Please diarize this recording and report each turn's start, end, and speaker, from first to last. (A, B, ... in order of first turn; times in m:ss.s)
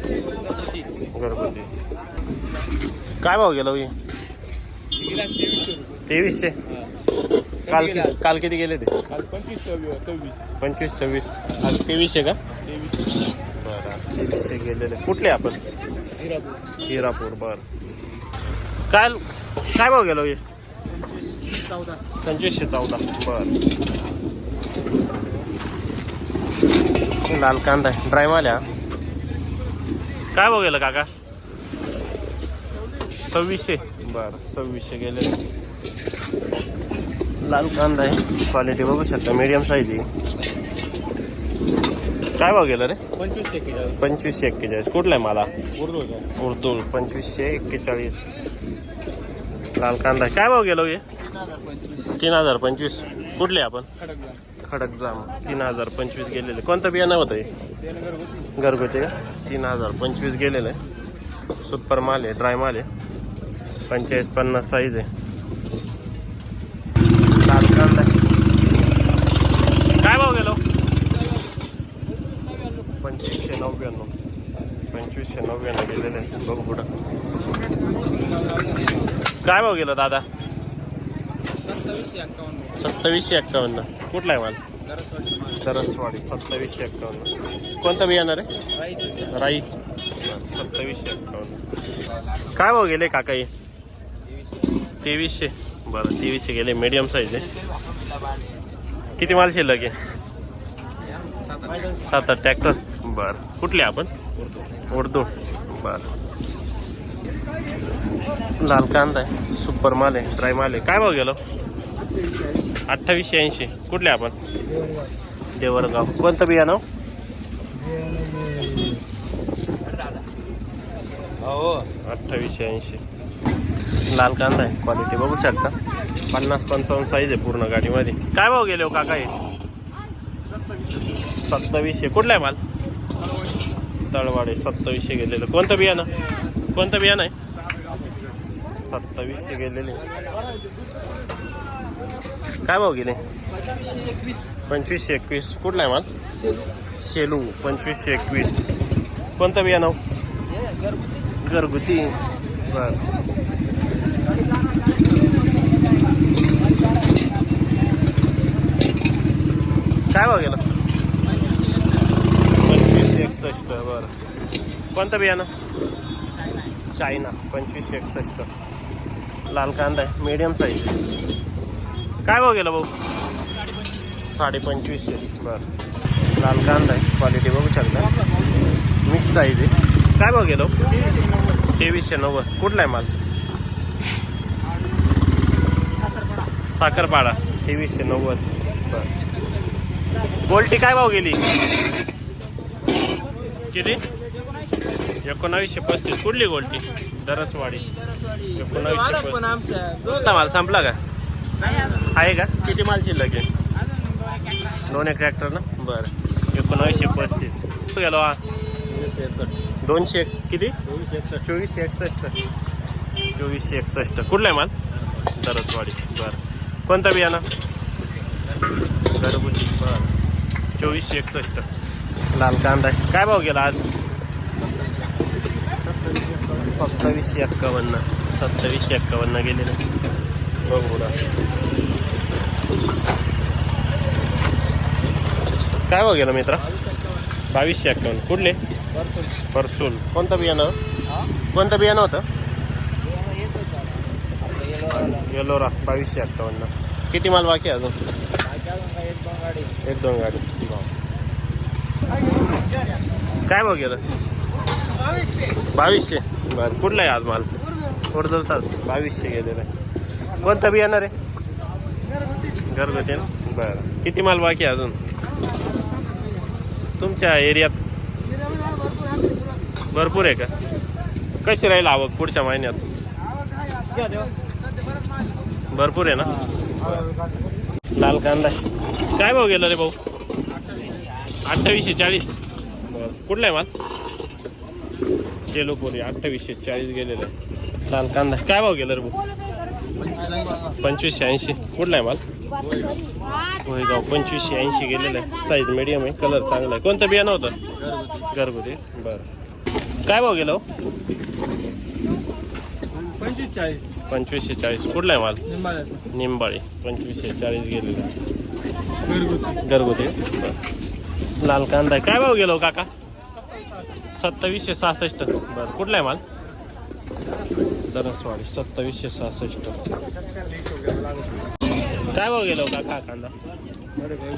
0:00.4-0:00.8 A
0:01.1-0:01.7 B
0:03.2-0:03.9 B
0:05.0-0:06.0 A
0:06.0-0:06.6 B
0:07.7-0:08.9 B
0:07.7-0:08.2 A
0:09.1-0:10.4 A
0:10.6-0:12.4 B
0:12.6-0:13.0 A
0:13.6-0:15.6 B
0:16.2-0:16.6 A
0:16.8-0:17.6 B
0:18.9-0:20.4 B
0:20.9-0:22.0 A
0:22.2-0:23.5 B
0:27.2-0:28.6 B
0:30.3-0:31.1 B
0:33.3-0:35.4 B
0:37.4-0:40.1 B
0:42.4-0:43.0 B
0:43.2-0:44.0 A
0:44.0-0:45.5 B
0:45.7-0:46.3 A
0:46.4-0:48.6 B
0:49.8-0:51.0 B
0:51.4-0:52.2 A
0:52.1-0:53.9 B
0:54.0-0:54.4 A
0:54.6-0:57.5 B
0:57.9-0:58.5 A
0:58.6-1:00.8 B
1:01.6-1:02.9 B
1:03.9-1:05.1 B
1:07.4-1:08.1 B
1:09.9-1:10.6 B
1:13.0-1:14.1 B
1:14.9-1:16.9 B
1:17.7-1:19.0 A
1:19.4-1:20.3 B
1:21.6-1:22.8 A
1:22.7-1:24.6 B
1:24.8-1:25.7 A
1:25.6-1:28.5 B
1:28.7-1:29.3 A
1:29.3-1:29.7 B
1:30.2-1:31.6 B
1:32.4-1:33.5 B
1:35.0-1:37.5 B
1:37.7-1:38.4 A
1:39.2-1:40.0 B
1:41.4-1:42.0 A
1:41.9-1:44.1 B
1:44.9-1:46.1 B
1:48.4-1:51.4 B
1:52.9-1:54.3 B
1:54.8-1:55.0 A
1:55.5-1:56.8 B
1:57.8-1:59.0 A
2:01.4-2:01.9 A
2:02.0-2:03.0 B
2:04.1-2:05.7 B
2:06.3-2:09.4 B
2:11.4-2:12.6 B
2:14.1-2:16.1 B
2:16.7-2:17.3 B
2:18.8-2:20.0 B
2:22.6-2:23.2 B
2:23.6-2:24.5 A
2:24.7-2:26.1 B
2:27.0-2:30.0 B
2:30.7-2:31.0 A
2:31.4-2:33.1 B
2:40.1-2:40.6 B
2:41.4-2:41.8 A
2:42.6-2:44.1 B
2:44.9-2:45.5 B
2:46.9-2:48.5 B
2:49.5-2:51.0 B
2:52.2-2:52.9 B
2:54.2-2:55.6 B
2:56.4-2:58.1 B
2:58.1-2:58.6 A
2:59.0-3:01.1 B
3:00.8-3:01.6 A
3:01.7-3:03.1 B
3:06.7-3:09.1 B
3:09.1-3:09.4 A
3:10.4-3:11.4 B
3:13.7-3:14.0 B
3:14.3-3:14.6 A
3:15.2-3:17.9 B
3:17.7-3:20.3 A
3:18.5-3:21.0 B
3:21.6-3:22.1 A
3:21.9-3:23.5 B
3:24.0-3:24.9 A
3:24.8-3:28.4 B
3:28.9-3:29.5 A
3:29.8-3:32.3 B
3:30.8-3:31.2 A
3:33.3-3:34.7 B
3:35.3-3:37.4 B
3:39.1-3:40.1 B
3:40.8-3:41.7 B
3:42.3-3:43.9 B
3:44.7-3:45.1 A
3:45.9-3:46.7 A
3:46.5-3:49.8 B
3:50.6-3:51.1 B
3:55.9-3:56.6 B
3:56.6-3:57.2 A
3:57.5-3:58.6 B
3:58.9-3:59.4 A
3:59.5-4:00.8 B
4:01.5-4:02.2 B
4:03.0-4:05.3 A
4:04.8-4:08.0 B
4:08.4-4:09.8 A
4:09.8-4:10.9 B
4:13.4-4:14.0 B
4:15.7-4:17.5 B
4:18.1-4:19.7 B
4:20.3-4:21.1 B
4:22.7-4:25.0 B
4:27.0-4:27.8 B
4:28.6-4:29.4 A
4:29.9-4:30.5 B
4:31.4-4:32.8 B
4:33.8-4:34.4 A
4:35.7-4:37.0 B
4:36.8-4:37.3 A
4:37.9-4:38.6 B
4:39.1-4:40.0 B
4:40.6-4:41.1 A
4:41.4-4:43.7 B
4:45.5-4:47.3 B
4:47.9-4:49.2 B
4:50.0-4:50.8 A
4:50.7-4:52.2 B
4:53.6-4:57.6 B
4:58.3-4:59.3 B
5:00.0-5:00.6 B
5:03.0-5:03.9 A
5:04.1-5:05.4 B
5:05.5-5:06.1 A
5:06.1-5:08.1 B
5:09.1-5:09.6 A
5:09.6-5:10.6 B
5:11.4-5:12.9 B
5:14.2-5:16.2 B
5:17.9-5:19.8 B
5:22.1-5:23.3 B